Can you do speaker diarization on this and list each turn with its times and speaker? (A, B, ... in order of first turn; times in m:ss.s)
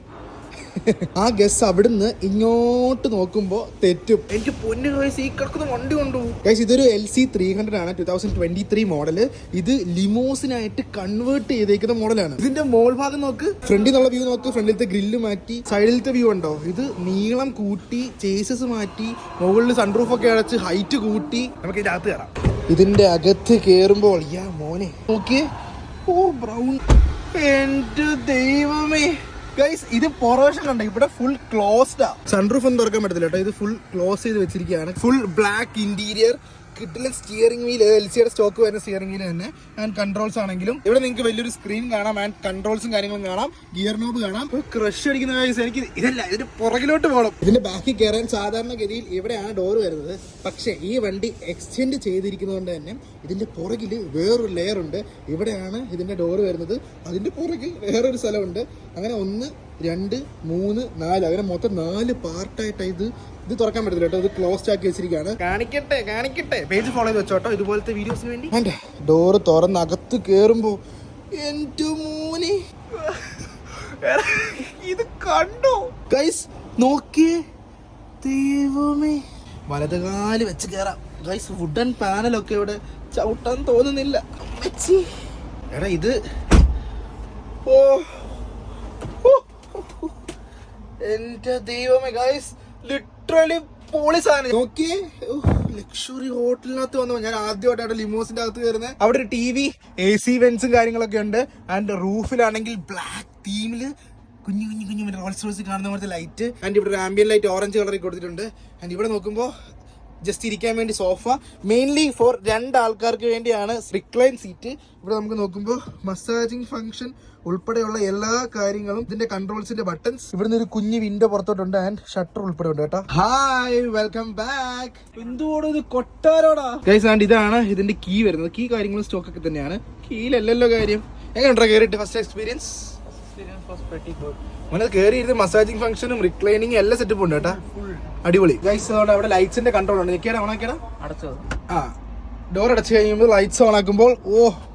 0:00.8-0:25.5 A
0:26.1-0:26.8 A
0:27.4-1:10.8 A
1:11.3-1:17.4 A
1:18.2-1:25.1 A
1:25.7-1:26.2 A
1:27.7-1:28.2 A
1:29.2-1:30.1 A
1:31.0-1:43.9 A
1:44.4-1:49.5 A
1:50.2-2:13.0 A
2:13.1-2:14.4 B
2:14.7-2:17.6 A
2:17.5-2:18.1 B
2:18.2-2:20.8 A
2:21.0-2:21.5 B
2:22.5-2:24.6 A